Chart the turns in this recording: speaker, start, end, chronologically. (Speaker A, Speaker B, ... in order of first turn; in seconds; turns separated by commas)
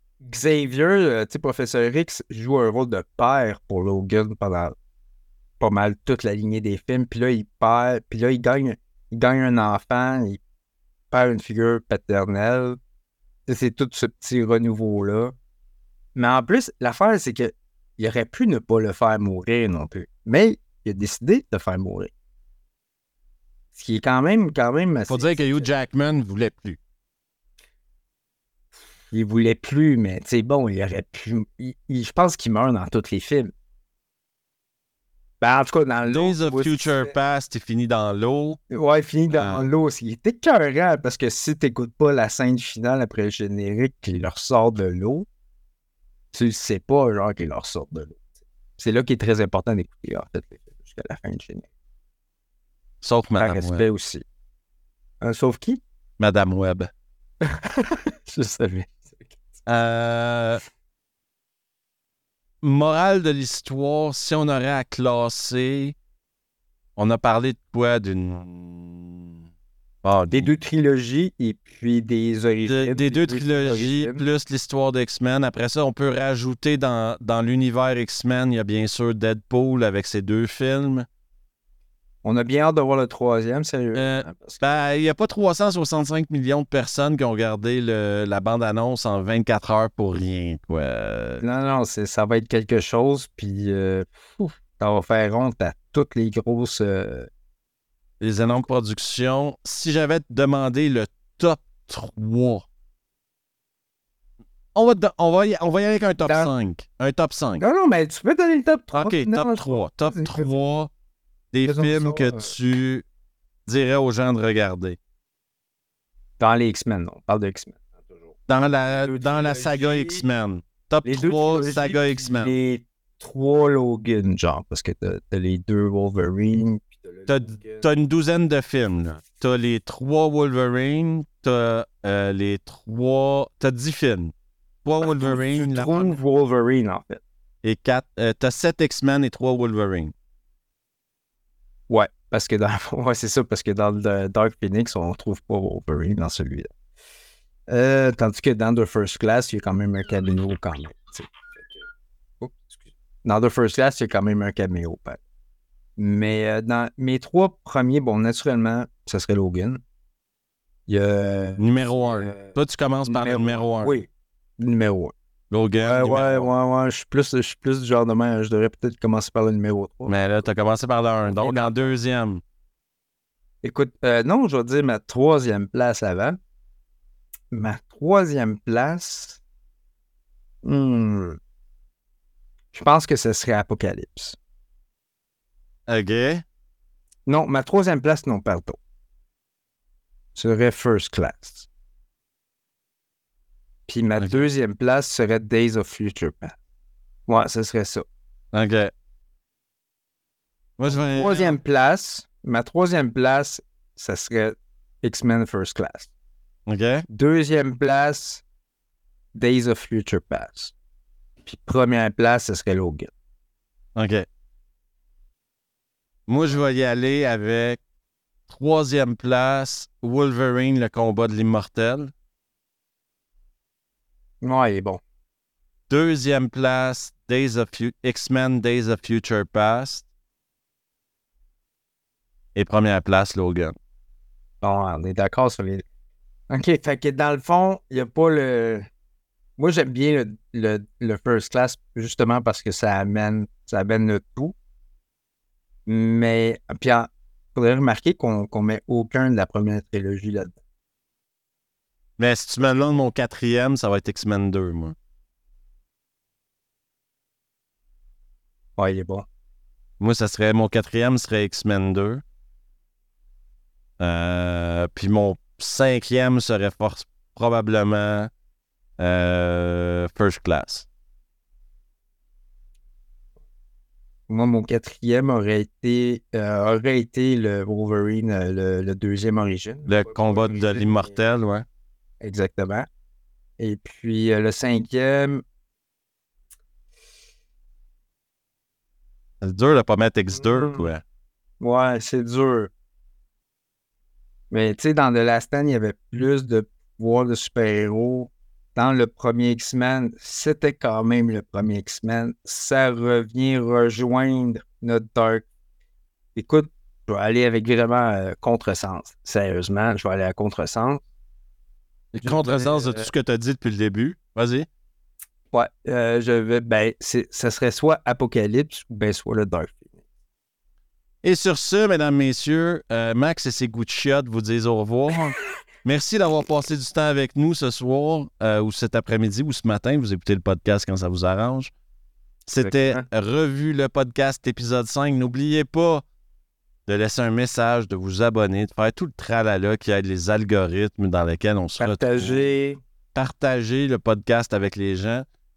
Speaker A: 0.2-4.7, Speaker A: 5.6-10.4, Speaker A: 11.1-12.8, Speaker A: 13.5-15.3, Speaker A: 16.1-22.1, Speaker A: 23.7-25.7, Speaker B: 25.1-26.8, Speaker A: 29.1-33.5, Speaker A: 35.4-37.1, Speaker B: 36.0-38.6, Speaker A: 38.7-45.3, Speaker B: 39.3-39.6, Speaker A: 46.3-48.2, Speaker A: 48.8-51.7, Speaker B: 53.0-53.8, Speaker A: 53.4-54.2, Speaker A: 55.2-55.8, Speaker B: 56.2-56.9, Speaker A: 57.4-59.2, Speaker B: 59.6-60.6, Speaker B: 62.6-66.0, Speaker B: 67.0-69.4, Speaker B: 70.0-70.5, Speaker A: 70.3-74.2, Speaker B: 72.7-81.0, Speaker A: 82.2-84.7, Speaker B: 83.9-91.4, Speaker A: 91.4-97.3, Speaker B: 98.2-102.7, Speaker B: 104.7-107.6, Speaker A: 106.2-106.5, Speaker A: 107.6-110.5, Speaker B: 108.9-110.9, Speaker B: 111.5-113.0, Speaker A: 111.6-112.5, Speaker B: 113.7-115.0, Speaker A: 116.4-117.8, Speaker B: 118.5-122.5, Speaker A: 118.9-120.2, Speaker A: 121.0-127.8, Speaker B: 127.3-134.3, Speaker B: 134.8-136.2, Speaker A: 135.0-137.2, Speaker B: 137.6-140.1, Speaker A: 141.9-146.7, Speaker A: 147.7-151.8, Speaker A: 152.4-152.7, Speaker A: 153.2-155.2, Speaker A: 156.0-159.8, Speaker A: 160.9-162.6, Speaker B: 161.6-164.0, Speaker A: 163.1-165.1, Speaker B: 165.5-166.5, Speaker A: 165.8-170.1, Speaker B: 170.1-172.4, Speaker A: 171.2-171.9, Speaker A: 173.6-176.4, Speaker A: 177.5-179.4, Speaker A: 180.6-181.4, Speaker A: 182.7-184.3, Speaker B: 185.9-186.4, Speaker A: 187.3-188.8, Speaker A: 190.3-191.7, Speaker A: 193.9-196.6, Speaker B: 194.2-194.4, Speaker A: 197.3-198.0, Speaker B: 198.5-198.9, Speaker B: 200.8-201.6, Speaker A: 200.9-206.1, Speaker B: 206.7-207.0, Speaker A: 207.1-208.4, Speaker A: 209.3-210.7, Speaker A: 211.4-213.1, Speaker B: 213.9-214.3, Speaker B: 216.3-217.8, Speaker B: 218.5-222.1, Speaker A: 224.4-225.0, Speaker B: 225.9-230.1, Speaker B: 232.5-233.8, Speaker A: 234.6-235.8, Speaker A: 236.5-238.9, Speaker A: 239.6-244.5, Speaker A: 245.8-250.6, Speaker B: 252.2-254.9, Speaker A: 258.8-259.3, Speaker B: 260.0-262.2, Speaker B: 264.0-268.3, Speaker B: 269.0-270.9, Speaker A: 274.3-281.1, Speaker B: 279.9-281.6, Speaker A: 282.2-282.9, Speaker A: 283.6-285.4, Speaker B: 289.4-291.0, Speaker A: 290.4-290.9, Speaker A: 291.6-292.7, Speaker A: 294.5-305.4, Speaker A: 306.3-311.0, Speaker B: 312.1-314.7, Speaker A: 312.2-313.1, Speaker A: 315.5-319.9, Speaker B: 321.2-331.7, Speaker B: 332.4-336.0, Speaker A: 332.6-333.0, Speaker B: 336.9-342.4, Speaker A: 341.8-342.8, Speaker B: 343.1-345.2